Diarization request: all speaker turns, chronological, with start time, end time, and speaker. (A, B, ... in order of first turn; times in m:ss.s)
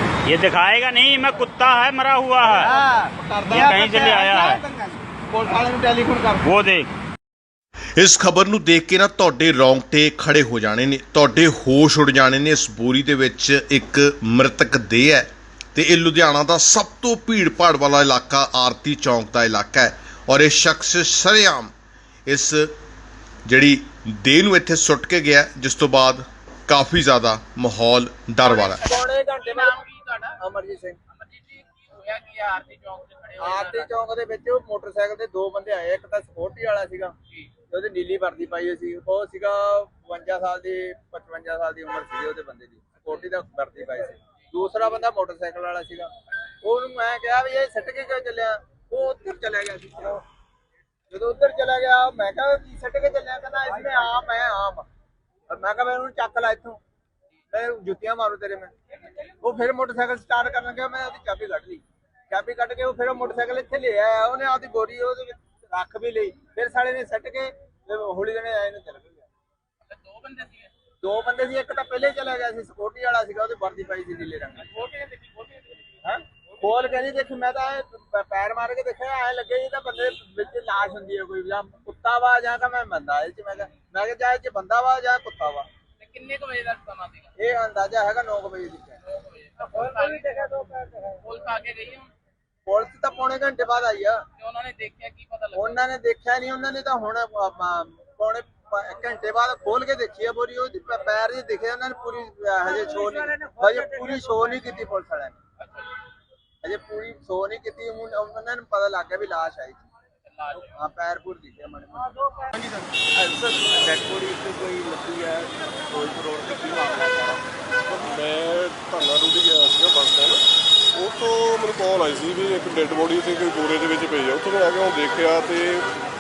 0:00.2-0:02.7 A
0:02.4-0:06.5 B
0:03.5-0:04.6 A
0:06.4-0:06.9 A
0:08.0-0:21.7 C
0:22.3-0:22.7 C
0:23.4-0:28.8 C
0:28.6-0:29.8 B
0:29.4-0:30.4 D
0:30.3-0:31.0 B
0:31.1-0:33.9 D
0:33.4-0:37.1 B
0:37.7-0:50.2 B
0:51.1-0:54.8 B
0:55.5-0:56.8 B
0:57.5-0:58.7 B
0:59.4-1:09.3 B
1:09.8-1:10.7 D
1:11.0-1:14.8 B
1:14.6-1:16.0 D
1:16.0-1:25.7 B
1:26.0-1:27.3 D
1:27.4-1:29.0 B
1:29.1-1:32.1 D
1:32.6-1:34.2 B
1:34.4-1:35.8 D
1:35.5-1:45.4 B
1:45.6-1:45.9 D
1:46.6-1:49.8 B
1:50.3-1:50.7 D
1:50.6-1:52.2 B
1:53.1-1:57.4 E
1:57.9-2:05.9 F